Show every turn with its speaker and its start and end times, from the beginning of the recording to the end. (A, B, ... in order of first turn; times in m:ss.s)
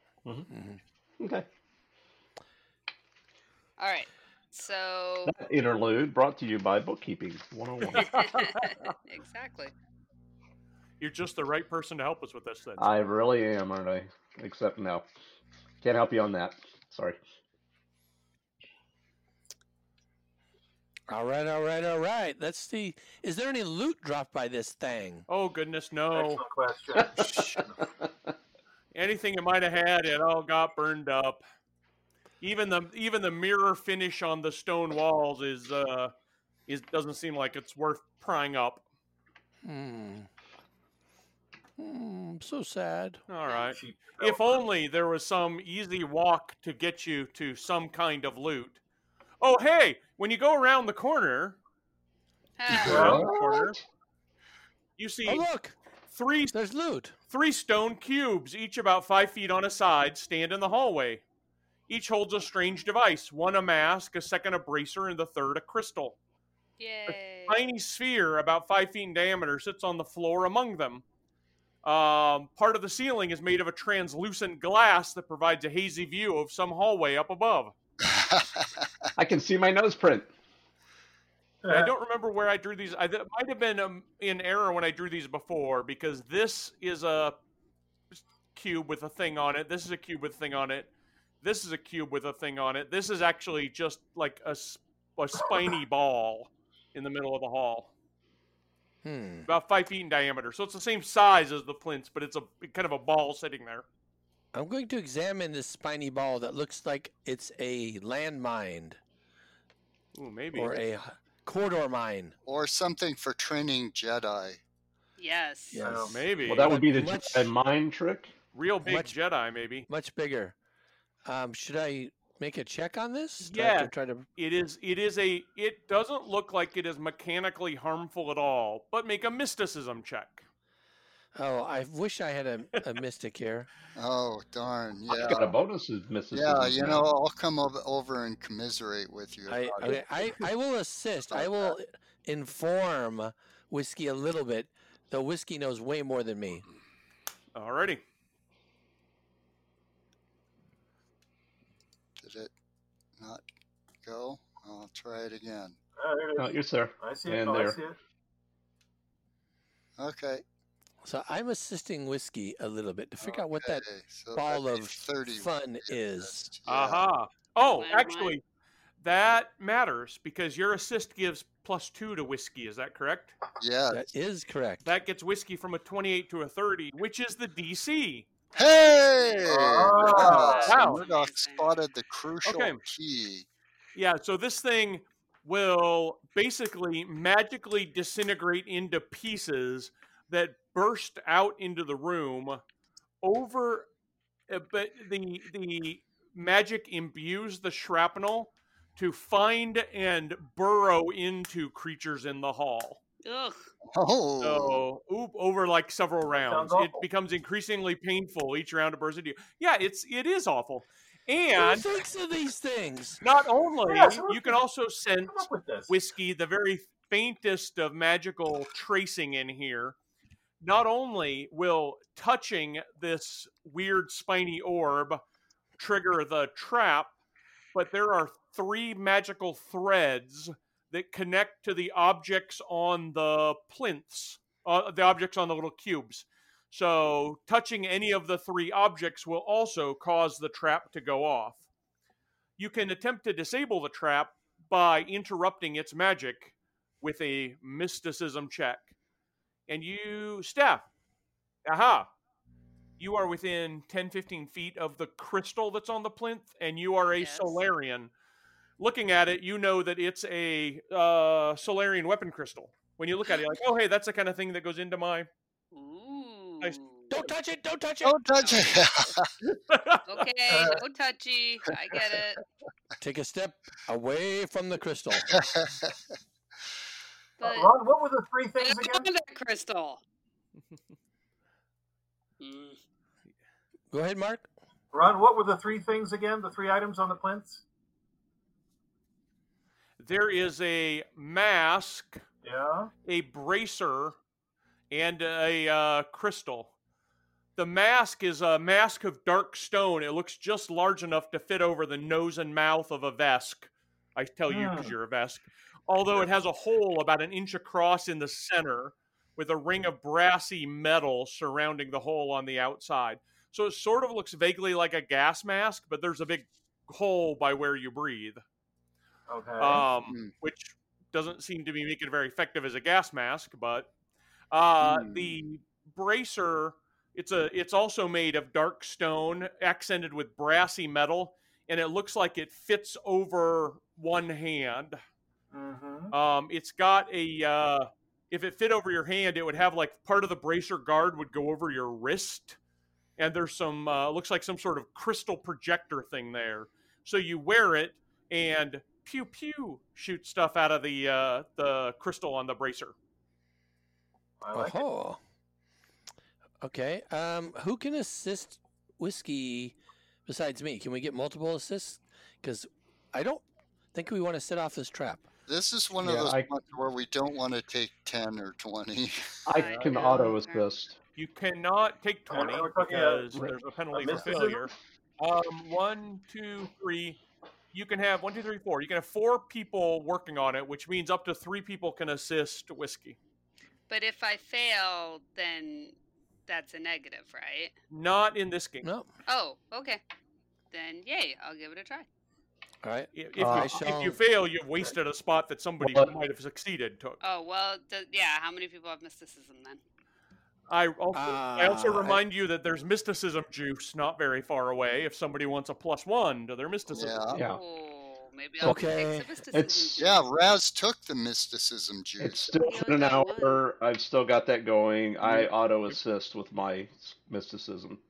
0:00.5-0:00.8 A
0:01.2-0:01.5 B
0:03.8-0:05.4 C
0:05.3-0:08.1 B
0:07.9-0:08.9 D
0:08.0-0:09.7 C
0:11.0-0:12.9 D
0:12.8-0:15.1 B
0:15.8-0:17.2 B
0:21.1-0:25.3 A
0:25.3-0:26.4 D
0:26.1-0:27.7 E
0:27.0-0:28.1 B
0:27.2-0:27.5 D
0:28.9-0:31.4 D
0:32.4-0:36.1 D
0:36.7-0:38.8 D
0:39.6-0:40.3 A
0:41.8-0:43.2 A
0:43.3-0:48.8 D
0:43.6-0:44.6 E
0:49.4-0:51.6 D
0:52.6-0:53.2 C
0:52.7-0:53.7 B
0:52.8-0:53.8 D
0:52.9-0:53.2 E
0:55.0-0:55.5 D
0:55.3-0:55.8 A
0:56.1-0:56.6 D
0:56.5-0:57.2 A
0:57.3-1:01.2 D
1:01.9-1:06.2 D
1:06.8-1:07.7 C
1:07.1-1:11.0 D
1:11.8-1:17.7 D
1:18.0-1:18.9 F
1:19.2-1:20.3 B
1:21.6-1:21.9 E
1:21.7-1:27.4 D
1:28.1-1:30.9 D
1:31.4-1:37.9 D
1:39.0-1:39.5 A
1:39.5-1:43.9 D
1:44.5-1:49.0 A
1:50.2-1:50.8 D
1:50.5-1:52.3 A
1:52.4-1:54.6 F
1:55.2-1:56.0 C
1:55.7-1:57.5 A
1:55.8-1:56.2 E
1:56.1-1:56.8 D
1:56.5-1:58.3 B
1:58.5-1:59.9 D
1:58.8-1:59.1 A
1:59.9-2:00.6 A
2:01.3-2:04.3 A
2:03.4-2:10.4 D
2:11.4-2:13.7 A
2:14.0-2:15.5 F
2:15.1-2:17.1 B
2:16.3-2:20.5 F
2:19.5-2:26.6 A
2:21.3-2:21.7 F
2:27.6-2:28.0 D
2:32.2-2:32.5 F
2:33.2-2:33.5 F
2:34.0-2:35.8 F
2:36.0-2:38.0 E
2:36.4-2:37.8 B
2:40.0-2:40.4 F
2:41.0-2:43.8 A
2:43.2-2:47.0 F
2:44.4-2:46.4 A
2:46.7-2:48.4 D
2:47.6-2:48.4 C
2:49.0-2:53.4 D
2:53.6-2:54.1 F
2:53.9-2:54.9 A
2:54.8-2:58.3 D
2:58.5-3:01.8 C
2:58.6-3:03.5 F
2:59.5-3:00.7 E
3:00.1-3:01.0 D
3:02.4-3:02.8 D
3:04.0-3:12.6 D
3:13.2-3:13.9 D
3:14.5-3:23.0 D
3:23.2-3:23.7 C
3:23.9-3:24.8 F
3:24.4-3:31.9 D
3:26.4-3:27.0 E
3:31.6-3:33.2 A
3:33.2-3:40.0 D
3:33.8-3:34.6 E
3:35.2-3:35.9 E
3:40.6-3:45.2 D
3:45.8-3:47.1 D
3:47.7-4:01.6 D
4:02.6-4:08.9 D
4:09.7-4:10.9 D
4:11.6-4:12.1 D
4:13.0-4:18.1 D
4:17.2-4:17.6 C
4:18.8-4:25.3 D
4:25.7-4:27.1 C
4:27.1-4:28.3 A
4:28.0-4:29.3 F
4:28.4-4:28.7 C
4:29.4-4:30.2 D
4:30.1-4:32.4 C
4:30.5-4:30.8 E
4:33.0-4:35.3 A
4:35.3-4:35.9 F
4:37.4-4:37.7 C
4:37.4-4:39.1 E
4:38.6-4:40.0 C
4:42.4-4:42.8 C
4:43.9-4:44.5 A
4:44.9-4:47.6 E
4:50.0-4:52.2 D
4:52.4-4:52.9 E
4:53.0-4:54.2 D
4:54.9-4:56.7 D
4:57.6-5:18.4 D
5:04.5-5:04.9 E
5:19.3-5:19.9 E
5:19.6-5:23.9 D
5:24.5-5:35.0 D
5:24.8-5:25.4 F
5:35.5-5:36.1 E
5:36.1-5:42.6 D
5:43.2-5:53.0 D
5:54.4-5:54.8 E
5:54.5-5:55.2 A
5:56.6-5:59.8 A
6:00.3-6:05.3 A
6:05.5-6:09.4 F
6:06.0-6:06.5 B
6:09.5-6:11.0 B
6:09.5-6:10.7 C
6:09.6-6:10.0 D
6:11.2-6:17.2 D
6:12.3-6:13.4 E
6:13.9-6:14.7 E
6:17.7-6:23.2 D
6:23.9-6:26.0 C
6:26.5-6:27.7 C
6:27.9-6:28.9 D
6:28.8-6:29.1 A
6:29.3-6:30.0 C
6:30.7-6:32.1 C
6:32.8-6:34.2 A
6:33.1-6:37.2 D
6:33.4-6:33.8 B
6:35.8-6:36.1 B
6:37.2-6:39.8 C
6:40.7-6:47.3 D
6:41.1-6:42.2 A
6:46.9-6:47.4 F
6:47.3-6:50.3 C
6:47.3-6:47.6 B
6:48.6-6:49.4 A
6:49.5-6:50.0 B
6:50.0-6:52.6 F
6:52.2-6:58.0 B
6:52.6-6:53.6 C
6:55.2-6:55.9 D